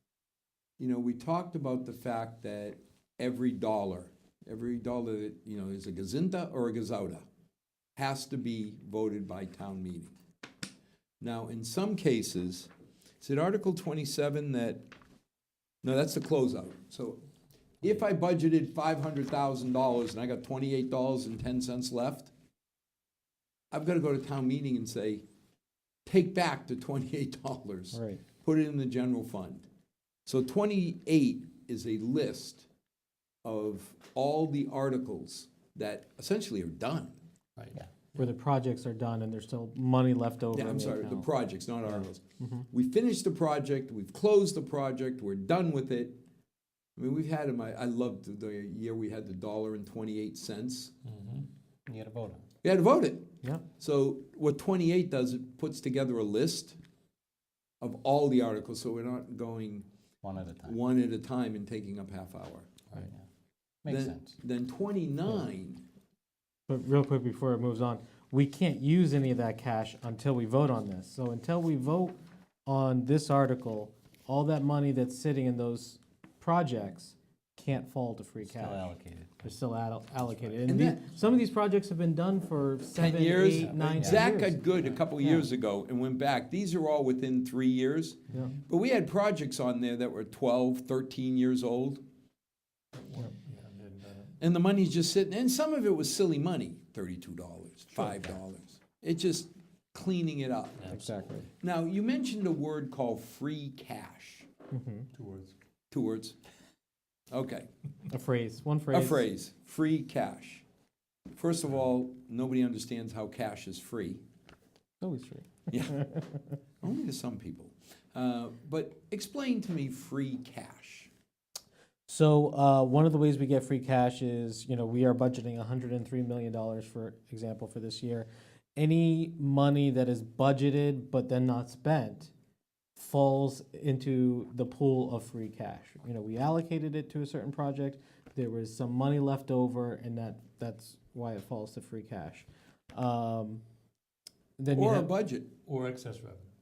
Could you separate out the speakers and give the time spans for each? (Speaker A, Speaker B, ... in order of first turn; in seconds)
Speaker A: 0.8-7.3, 8.0-10.2, 11.2-12.7, 13.2-14.8, 15.8-17.2, 17.8-22.3, 23.7-25.2, 26.1-29.7, 30.3-32.7, 33.4-37.2, 40.5-46.2, 47.0-50.9, 52.6-56.8, 57.8-59.9, 60.6-62.7, 63.9-65.8, 80.7-81.0, 83.0-92.0, 94.4-100.8, 101.6-104.5, 105.9-106.4, 107.3-107.7, 108.9-110.7, 111.3-114.2, 115.7-116.1, 116.8-121.1, 144.7-145.5
Speaker B: 27.9-28.2, 38.2-41.3, 42.4-42.7, 66.7-84.6, 100.9-101.5, 104.7-105.1, 108.1-109.2, 115.0-116.2, 122.1-132.3, 133.0-143.6, 144.6-145.1
Speaker C: 37.6-38.3, 51.0-51.5, 83.5-85.0, 92.9-94.4, 100.8-101.5, 105.1-105.5, 145.7-146.5
Speaker D: 51.9-52.4, 60.2-60.7, 78.4-79.5, 84.0-84.3